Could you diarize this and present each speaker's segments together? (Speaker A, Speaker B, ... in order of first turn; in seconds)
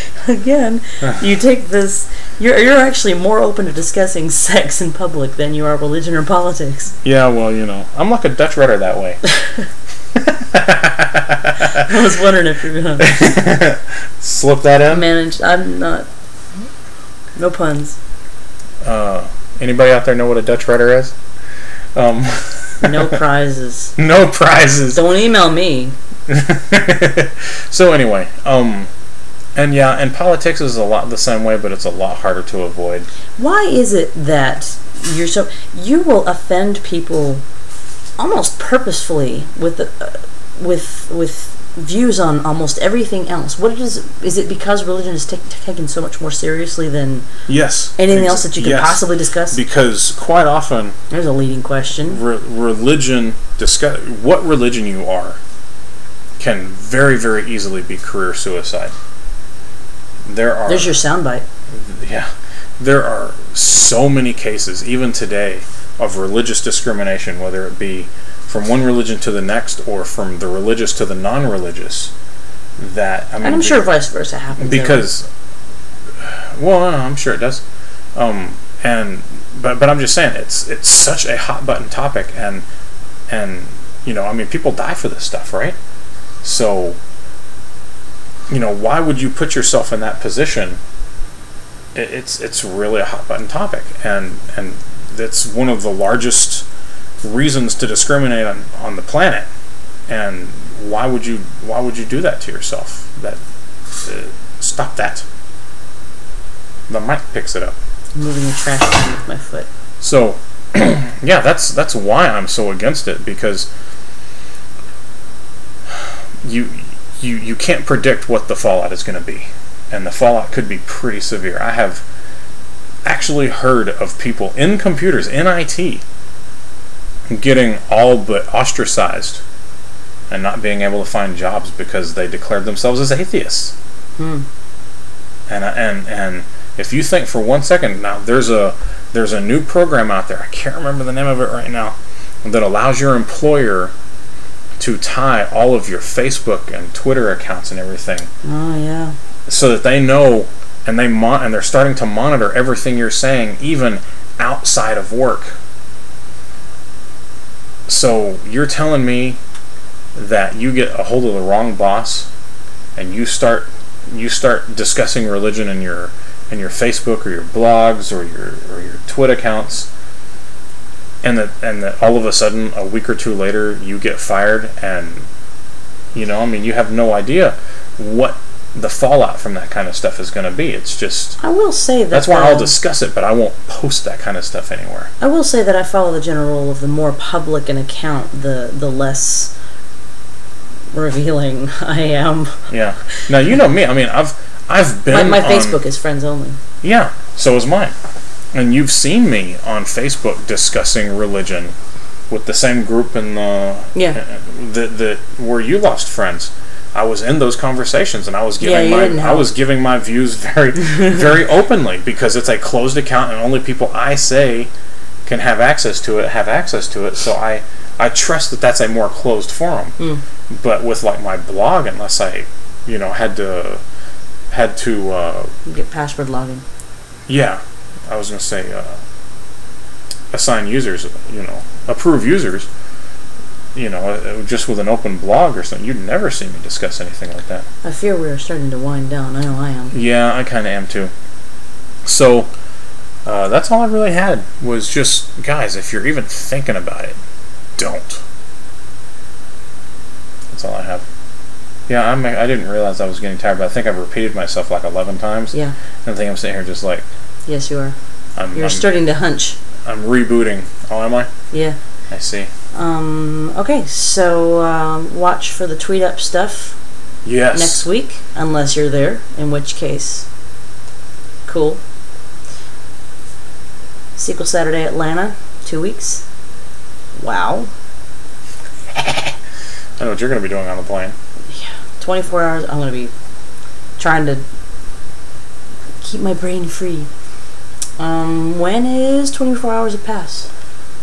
Speaker A: 0.2-6.9, 11.6-13.2, 14.9-16.1, 17.4-18.0, 22.8-23.9, 24.9-25.9, 33.4-37.4, 38.2-47.3, 48.0-49.6, 51.1-52.2, 60.7-61.4, 73.4-75.1, 108.2-109.7, 134.2-134.4, 148.4-149.1, 181.4-182.8, 185.2-189.5, 190.9-192.5, 195.1-196.6, 208.6-209.5, 225.7-226.6, 237.8-239.9, 257.4-257.9, 258.5-259.6, 261.5-261.8, 262.7-266.8, 267.5-270.2, 271.4-271.8, 274.1-276.2, 277.1-277.7, 281.5-283.1, 284.0-284.4, 286.0-287.1, 288.0-290.5
Speaker B: 7.0-9.2, 10.2-11.8, 13.0-15.1, 18.8-21.1, 21.9-23.2, 24.0-25.0, 26.3-28.9, 29.5-33.1, 47.5-50.9, 52.1-55.4, 56.4-58.9, 60.2-61.0, 61.7-72.1, 72.8-73.9, 74.6-75.3, 76.2-77.6, 78.2-82.6, 83.3-85.8, 86.4-87.0, 88.5-90.8, 91.9-96.7, 97.2-99.5, 100.1-103.4, 104.0-105.2, 106.9-107.8, 110.0-113.7, 116.4-122.0, 123.0-126.0, 127.3-129.4, 130.3-133.7, 135.5-143.9, 144.8-148.3, 149.5-155.5, 157.9-159.4, 160.1-162.3, 162.9-169.9, 171.2-175.2, 176.1-181.4, 182.1-185.1, 192.7-195.8, 196.8-197.9, 198.5-201.7, 202.3-214.7, 215.2-219.9, 220.5-223.8, 224.5-225.5, 227.3-229.0, 230.3-232.7, 233.8-237.7, 239.9-241.1, 242.0-242.5, 243.2-247.2, 247.8-248.2, 250.5-251.0, 251.9-257.0, 258.4-258.9, 259.8-261.3, 262.1-262.5, 267.2-267.9, 280.0-281.1